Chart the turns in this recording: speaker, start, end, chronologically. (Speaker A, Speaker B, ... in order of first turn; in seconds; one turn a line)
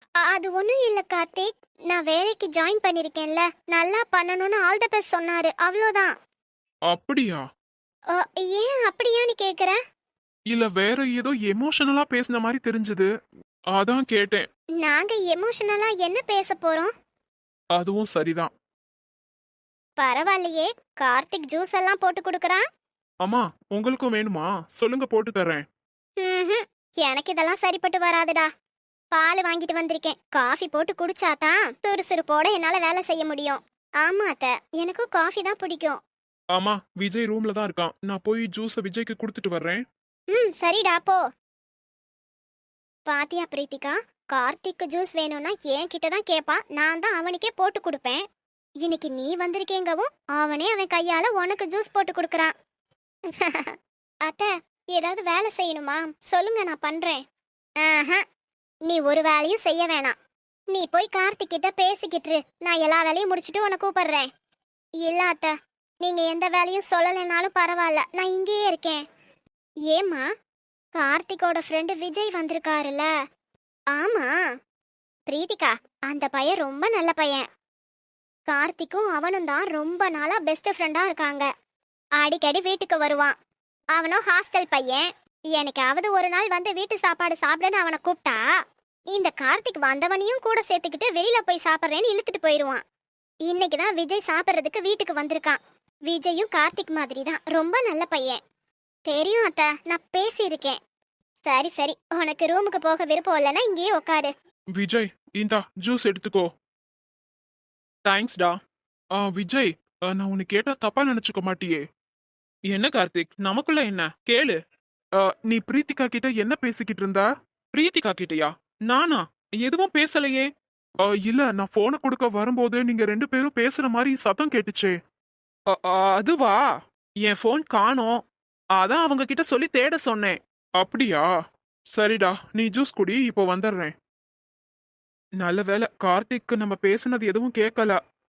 Speaker A: 0.2-6.1
Speaker B: 6.9-7.4
Speaker A: 8.2-9.8
Speaker B: 10.5-13.1
Speaker B: 13.7-14.4
Speaker A: 14.8-16.9
Speaker B: 17.7-18.5
Speaker A: 20.0-22.6
Speaker B: 23.2-25.6
Speaker A: 26.2-28.5
Speaker A: 29.1-36.0
Speaker B: 36.5-39.8
Speaker A: 40.3-41.2
Speaker A: 43.1-48.2
Speaker A: 48.8-52.5
Speaker A: 53.3-53.8
Speaker A: 54.3-57.2
Speaker A: 57.8-58.2
Speaker A: 58.9-60.1
Speaker A: 60.7-64.3
Speaker A: 65.0-69.0
Speaker A: 69.9-70.3
Speaker A: 71.0-73.1
Speaker A: 73.9-74.3
Speaker A: 75.3-77.5
Speaker A: 78.5-81.5
Speaker A: 82.2-83.4
Speaker A: 84.0-88.4
Speaker A: 89.1-92.8
Speaker A: 93.5-98.4
Speaker A: 99.1-100.8
Speaker A: 101.5-104.3
Speaker B: 104.8-106.5
Speaker B: 108.0-108.6
Speaker B: 109.2-111.8
Speaker B: 112.7-114.6
Speaker B: 115.2-120.5
Speaker B: 121.0-124.9
Speaker B: 125.7-126.6
Speaker B: 127.2-128.2
Speaker B: 128.8-131.3
Speaker B: 131.9-133.9
Speaker B: 135.4-138.0